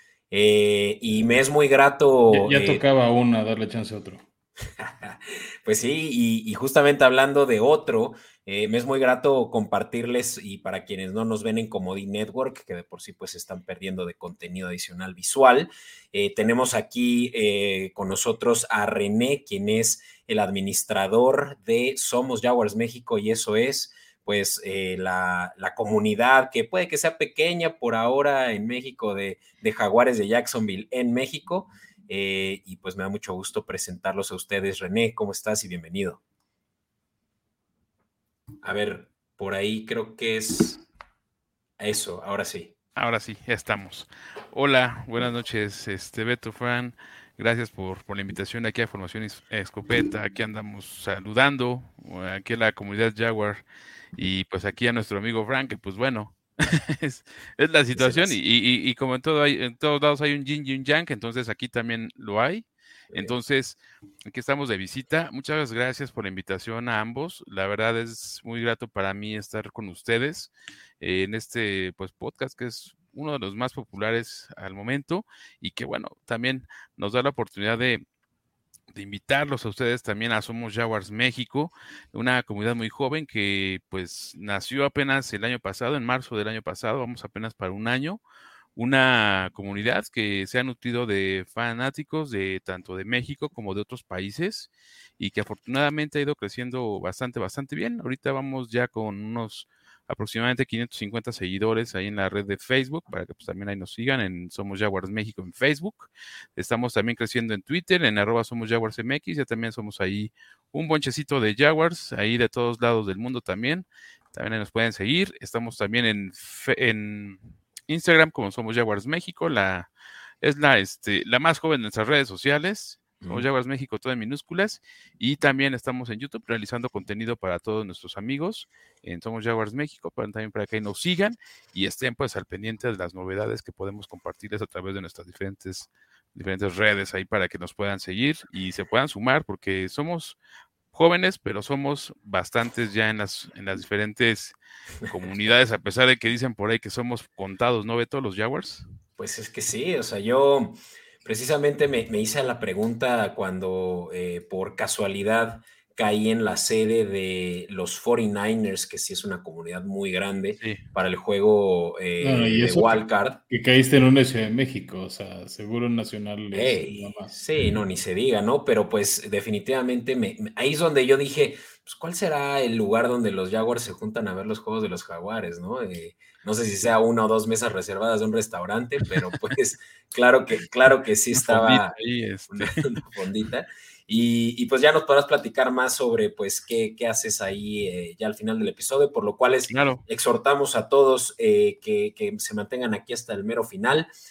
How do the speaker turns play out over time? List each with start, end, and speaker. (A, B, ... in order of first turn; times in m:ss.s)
0:00.3-0:02.8 A
0:02.3-0:04.2 B
0:04.8-0:36.2 A
0:38.6-0:40.8 A
0:41.8-0:42.7 A
0:43.0-0:53.6 C
0:54.2-1:18.0 C
0:58.0-0:58.4 A
1:18.9-1:28.2 C
1:28.8-1:59.9 C
2:00.4-2:20.4 C
2:03.2-2:03.5 A
2:20.9-2:28.8 C
2:29.2-2:43.4 A
2:42.2-2:47.4 B
2:46.5-3:02.0 A
3:01.3-3:02.9 C
3:02.5-3:14.1 A
3:09.7-3:10.0 C